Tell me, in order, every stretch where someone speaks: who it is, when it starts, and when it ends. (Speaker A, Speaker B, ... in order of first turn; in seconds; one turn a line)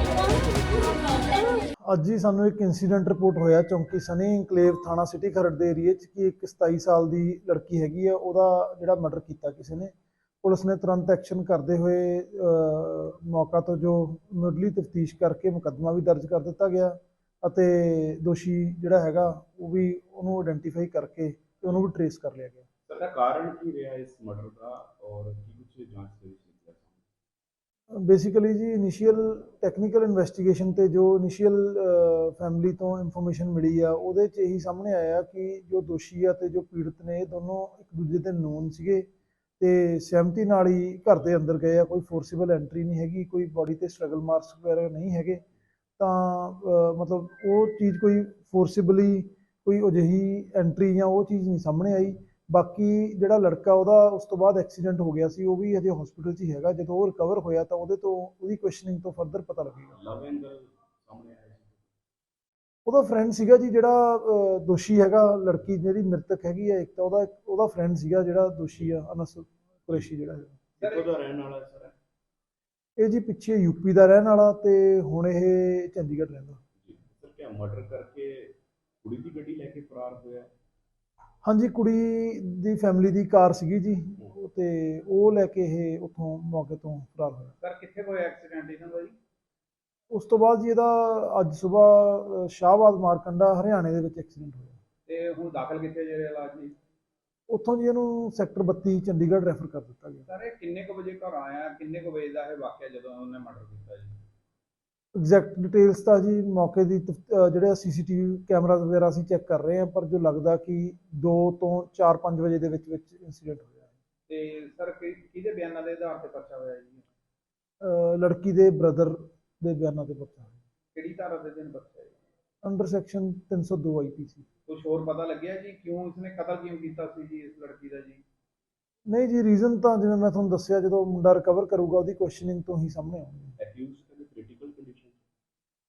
Speaker A: 1.9-22.7
Speaker B: 22.9-27.0
Speaker A: 27.9-39.1
Speaker A: 39.6-45.4
Speaker A: 46.0-60.0
Speaker B: 59.9-61.8
Speaker A: 62.9-70.6
Speaker B: 70.8-72.0
Speaker C: 70.8-71.1
Speaker A: 73.0-76.6
Speaker B: 76.8-80.5
Speaker A: 81.5-87.5
Speaker C: 87.6-89.2
Speaker A: 90.1-94.8
Speaker C: 95.1-96.8
Speaker A: 97.5-100.2
Speaker C: 100.3-104.2
Speaker A: 105.2-113.9
Speaker C: 114.3-117.1
Speaker A: 117.8-120.6
Speaker C: 120.9-122.2
Speaker A: 122.6-124.5
Speaker C: 124.7-128.2
Speaker A: 129.1-133.6
Speaker B: 133.6-135.2